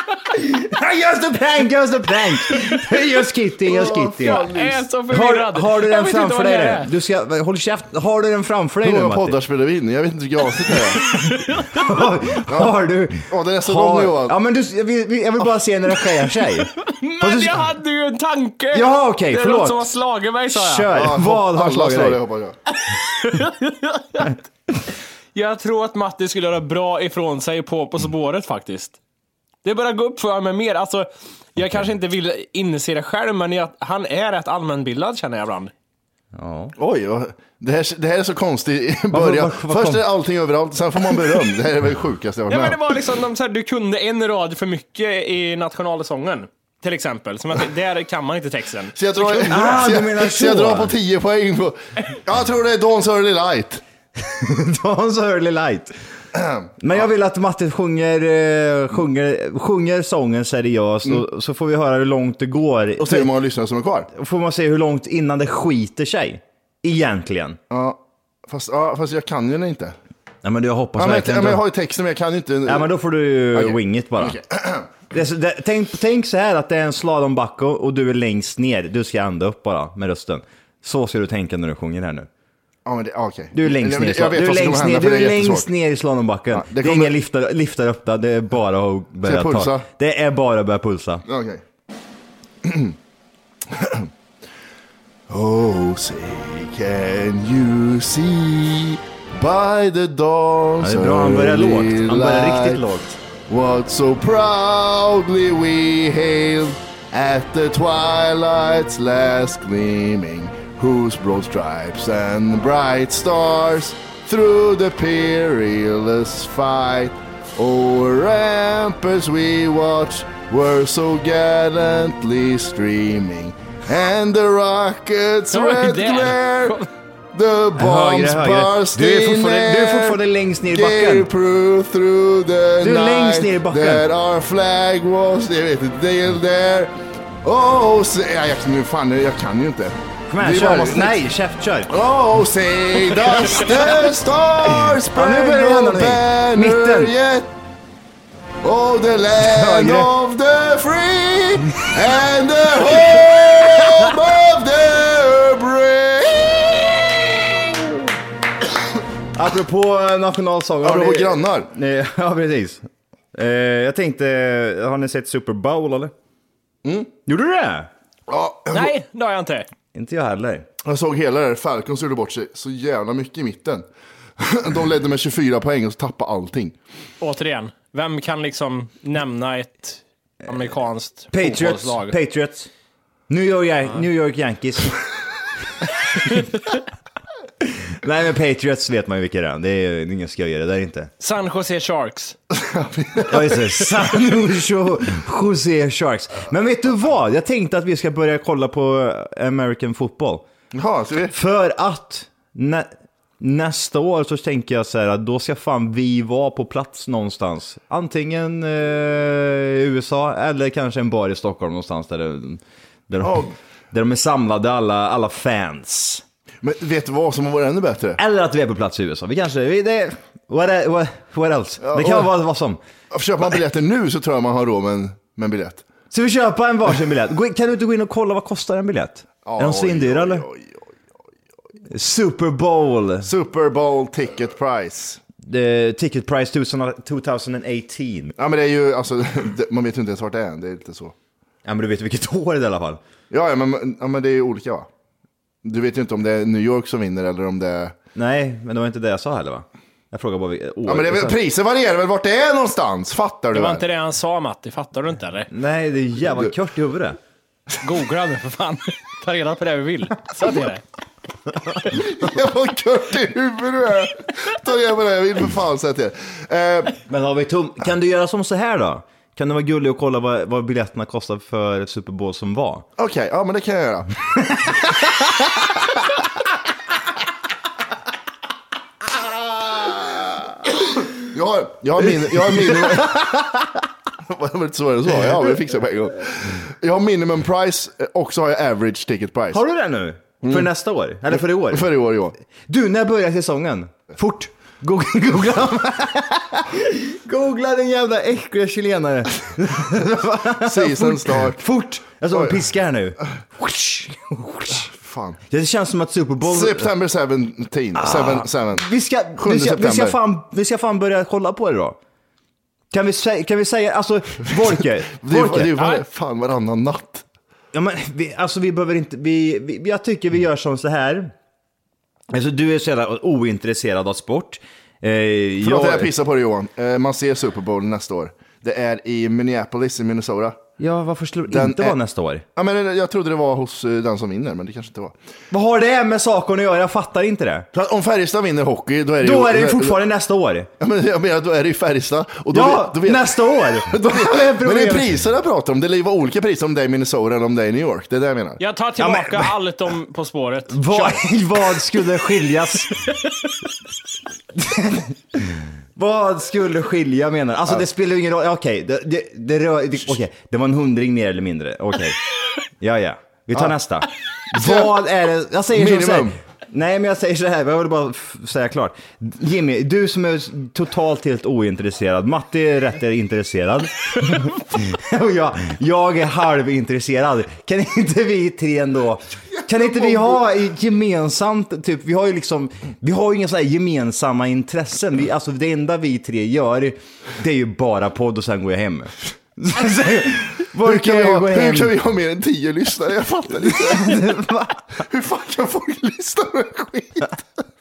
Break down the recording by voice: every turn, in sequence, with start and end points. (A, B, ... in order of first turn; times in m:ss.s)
0:00.3-0:04.5 A
0:03.6-0:04.9 B
0:03.7-0:06.9 C
0:05.1-0:09.4 A
0:08.8-0:11.0 B
0:10.9-0:17.7 A
0:11.1-0:11.8 C
0:12.5-0:12.7 B
0:13.3-0:14.3 B
0:16.8-0:20.9 C
0:18.7-0:19.9 A
0:20.5-0:22.2 A
0:20.9-0:22.6 B
0:22.8-0:24.4 C
0:25.3-0:29.0 C
0:29.6-0:35.7 C
0:36.3-0:36.7 A
0:36.8-0:42.8 B
0:39.1-0:40.1 A
0:42.5-0:49.0 C
0:49.0-0:53.8 B
0:49.4-0:50.9 A
0:54.2-0:55.9 A
0:56.3-0:56.7 B
0:56.8-1:03.3 A
1:03.0-1:04.1 B
1:04.1-1:07.6 A
1:07.7-1:09.9 B
1:10.4-1:11.6 A
1:11.0-1:12.9 B
1:12.6-1:14.4 A
1:13.5-1:14.9 B
1:15.1-1:22.3 A
1:22.8-1:25.7 B
1:23.5-1:31.2 A
1:26.5-1:27.1 B
1:29.2-1:29.9 B
1:31.2-1:31.6 B
1:32.6-1:33.0 B
1:33.7-1:34.1 B
1:35.3-1:42.8 B
1:40.8-1:43.2 A
1:43.5-2:06.8 B
2:05.5-2:06.9 C
2:07.3-2:10.2 B
2:07.8-2:11.3 A
2:10.7-2:21.2 B
2:12.8-2:14.0 A
2:20.3-2:21.9 A
2:21.9-2:27.5 B
2:24.9-2:27.1 A
2:28.6-2:37.6 B
2:29.4-2:30.1 A
2:39.3-2:46.1 A
2:40.8-2:41.7 B
2:46.8-2:47.1 B
2:47.2-2:47.9 A
2:48.3-2:48.9 B
2:48.7-2:49.7 C
2:49.9-2:50.7 A
2:50.8-2:53.8 B
2:54.4-2:56.7 B
2:57.2-3:02.2 C
3:01.3-3:02.7 A
3:03.3-3:05.0 A
3:07.6-3:11.1 A
3:11.2-3:12.4 C
3:12.5-3:13.6 B
3:13.2-3:20.4 A
3:20.7-3:21.4 B
3:21.3-3:36.2 A
3:33.2-3:33.5 B
3:36.6-3:38.2 B
3:38.2-3:42.8 A
3:41.8-3:42.3 B
3:43.1-3:45.8 B
3:46.1-3:50.4 A
3:49.4-3:51.0 B
3:51.9-3:53.3 A
3:53.2-3:55.2 B
3:55.4-3:58.4 A
3:58.4-4:01.1 B
4:01.6-4:03.0 A
4:03.3-4:04.9 B
4:05.6-4:08.0 B
4:08.1-4:11.4 A
4:10.9-4:13.8 B
4:13.5-4:15.5 C
4:15.5-4:17.2 A
4:17.8-4:20.8 C
4:21.9-4:27.0 B
4:27.0-4:32.9 A
4:33.0-4:34.1 B
4:39.6-4:40.0 A
4:41.1-4:43.2 B
4:42.0-4:43.8 A
4:44.2-4:49.6 B
4:49.5-4:51.9 A
4:50.4-4:50.7 B
4:51.3-4:52.4 B
4:52.7-5:04.9 A
5:00.6-5:01.6 B
5:02.3-5:02.6 B
5:04.8-5:05.4 B
5:05.5-5:06.9 A
5:06.5-5:08.9 B
5:07.9-5:12.0 A
5:09.4-5:10.2 B
5:12.9-5:15.8 A
5:15.2-5:17.2 B
5:15.8-5:16.0 C
5:17.7-5:21.3 A
5:22.3-5:26.1 A
5:25.6-5:30.6 B
5:30.8-5:32.4 A
5:31.5-5:32.0 B
5:32.5-5:35.1 B
5:35.5-5:37.7 A
5:37.7-5:39.9 B
5:39.2-5:40.7 A
5:40.8-5:43.3 B
5:42.5-5:45.1 A
5:43.9-5:48.6 B
5:48.6-5:51.2 C
5:49.0-5:49.6 A
5:50.7-5:53.0 A
5:53.1-5:53.4 C
5:54.5-6:02.2 A
6:02.8-6:31.9 A
6:04.5-6:04.9 B
6:05.7-6:06.4 B
6:19.8-6:20.4 B
6:30.8-6:34.4 B
6:33.6-6:34.8 A
6:35.0-6:37.4 B